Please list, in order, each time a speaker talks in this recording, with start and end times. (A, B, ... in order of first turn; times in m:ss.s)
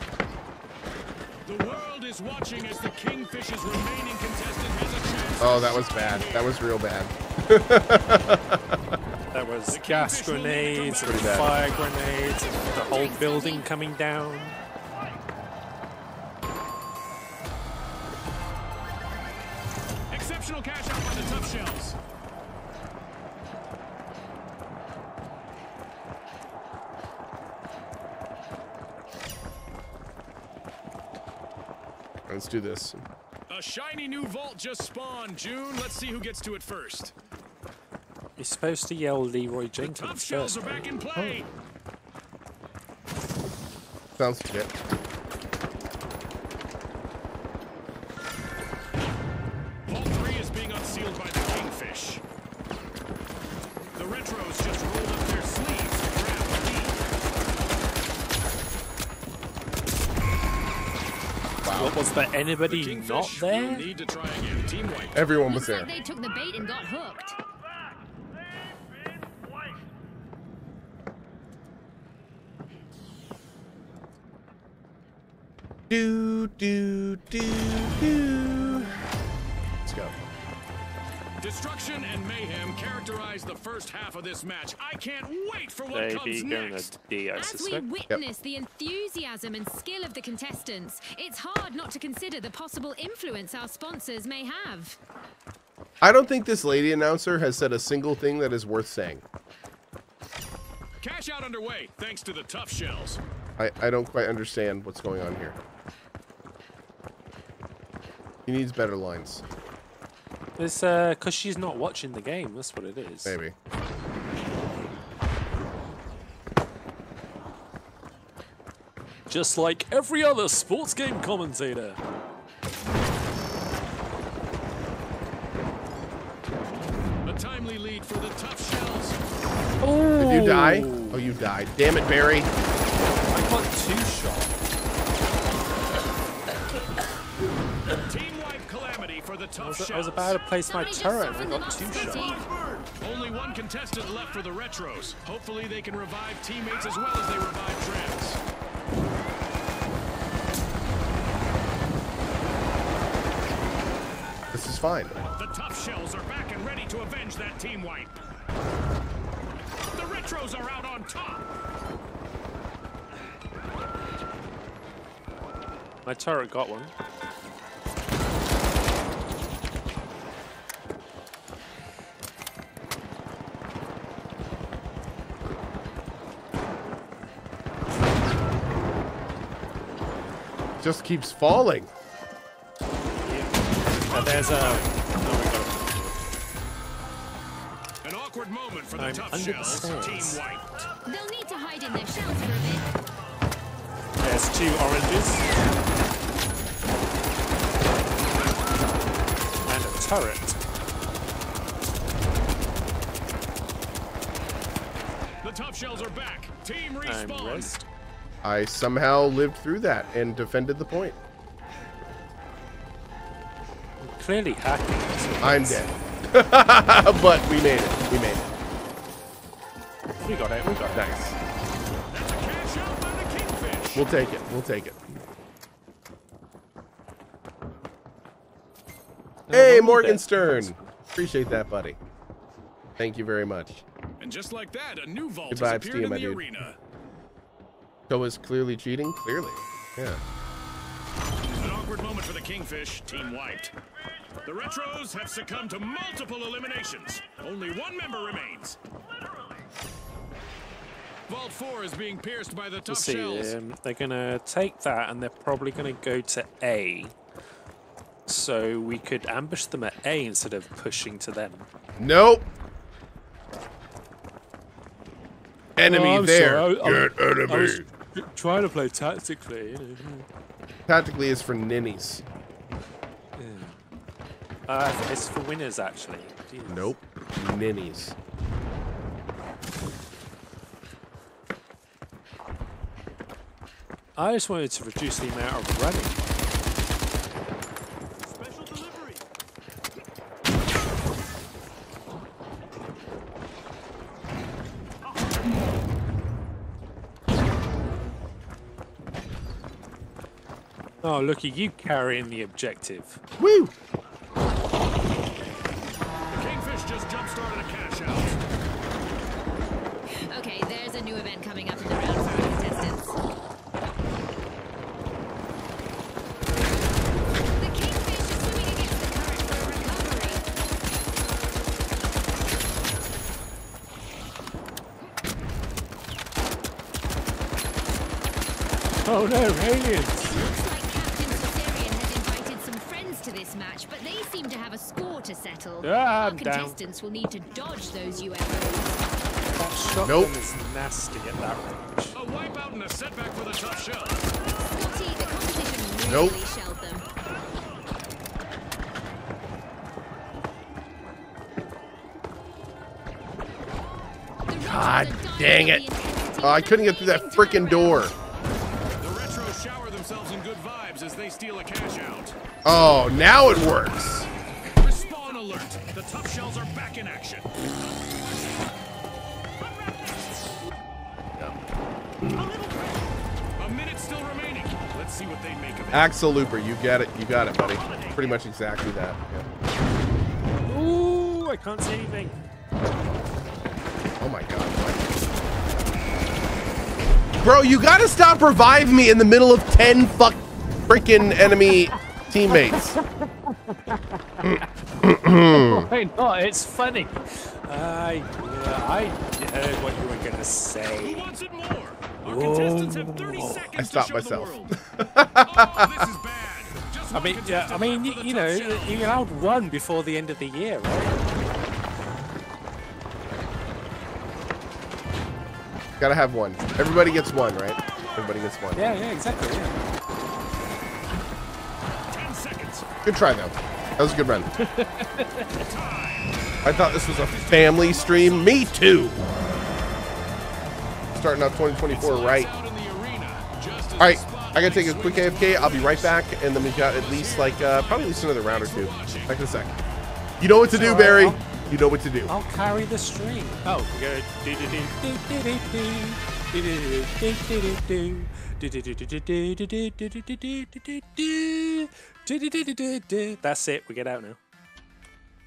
0:01.4-0:06.5 A
0:05.4-0:09.0 B
0:09.3-0:14.6 C
0:09.7-0:12.2 A
0:11.0-0:11.6 B
0:12.2-0:13.7 D
0:20.1-0:22.0 A
0:32.3-0:33.0 B
0:33.5-0:37.1 A
0:38.4-0:40.8 C
0:39.8-0:41.5 A
0:41.2-0:41.4 B
0:44.2-0:44.7 B
0:49.9-0:52.2 A
0:54.0-0:57.0 A
1:01.6-1:02.0 B
1:01.7-1:03.9 C
1:02.7-1:05.3 A
1:05.1-1:05.9 B
1:05.5-1:07.4 D
1:15.9-1:18.9 B
1:19.8-1:20.2 B
1:21.4-1:26.9 A
1:25.9-1:27.8 C
1:27.4-1:35.0 D
1:36.0-1:39.2 B
1:41.0-1:43.2 A
1:43.6-1:45.6 B
1:48.5-1:49.4 B
1:50.6-1:53.4 C
1:53.2-1:53.6 B
1:59.3-2:02.0 C
2:07.2-2:09.2 A
2:09.8-2:11.2 C
2:10.2-2:12.5 B
2:13.3-2:14.6 C
2:18.0-2:20.4 A
2:19.6-2:22.4 C
2:20.6-2:22.5 D
2:23.0-2:28.4 A
2:34.5-2:35.2 B
2:35.4-2:38.2 A
2:39.9-2:41.5 A
2:46.0-2:46.9 C
3:00.8-3:01.9 B
3:03.2-3:03.5 C
3:04.1-3:06.2 C
3:04.1-3:04.9 A
3:08.0-3:10.9 A
3:09.0-3:10.4 C
3:11.1-3:12.9 D
3:14.2-3:15.5 C
3:19.7-3:20.6 C
3:25.4-3:27.8 A
3:27.0-3:27.9 C
3:28.4-3:31.2 B
3:34.0-3:35.9 C
3:35.4-3:38.4 B
3:40.2-3:41.1 C
3:40.9-3:41.4 B
3:42.1-3:44.1 A
3:44.0-3:45.0 B
3:49.5-3:50.8 C
3:49.5-3:52.0 B
3:53.0-3:53.8 B
3:54.2-3:56.8 A
3:55.5-3:56.4 B
3:58.1-4:00.2 B
4:01.5-4:03.7 A
4:04.4-4:08.8 A
4:11.3-4:13.6 A
4:12.9-4:17.2 C
4:18.3-4:21.7 C
4:22.0-4:22.5 B
4:25.8-4:27.8 B
4:25.8-4:30.3 C
4:30.9-4:32.2 B
4:33.4-4:33.8 C
4:34.7-4:36.9 C
4:36.7-4:38.2 B
4:44.2-4:46.2 C
5:01.0-5:03.2 C
5:03.4-5:03.7 B
5:06.3-5:08.4 A
5:10.2-5:13.2 D
5:17.6-5:20.4 D
5:29.0-5:30.4 C
5:30.2-5:39.0 D
5:35.8-5:36.8 C
5:39.6-5:42.2 C
5:40.0-5:40.3 B
5:42.2-5:44.3 A
5:44.7-5:47.1 D
5:46.1-5:46.4 B
5:54.5-5:58.1 D
5:54.6-5:55.8 B
5:56.4-5:58.1 B
5:59.0-6:02.4 A
6:02.6-6:04.3 B
6:04.7-6:08.7 A
6:09.8-6:10.2 A
6:12.2-6:12.5 B
6:12.3-6:13.0 A
6:13.6-6:16.1 A
6:15.9-6:19.5 B
6:17.6-6:18.4 A
6:20.7-6:22.4 C
6:24.2-6:25.1 B
6:27.4-6:33.0 B
6:32.5-6:34.7 C
6:34.4-6:35.9 B
6:35.5-6:41.4 C
6:41.0-6:44.8 A
6:42.2-6:43.6 C
6:43.8-6:46.1 B
6:45.4-6:49.2 A
6:47.1-6:51.2 C
6:56.0-6:58.8 B
6:57.8-6:58.3 A
6:58.8-6:59.8 C
7:02.1-7:02.9 A
7:03.0-7:04.5 B
7:04.6-7:05.6 C
7:05.5-7:08.7 A
7:06.6-7:09.3 B
7:11.2-7:12.5 B
7:11.9-7:19.4 A
7:14.0-7:19.7 B
7:20.4-7:22.3 B
7:20.7-7:21.4 C
7:22.3-7:34.4 C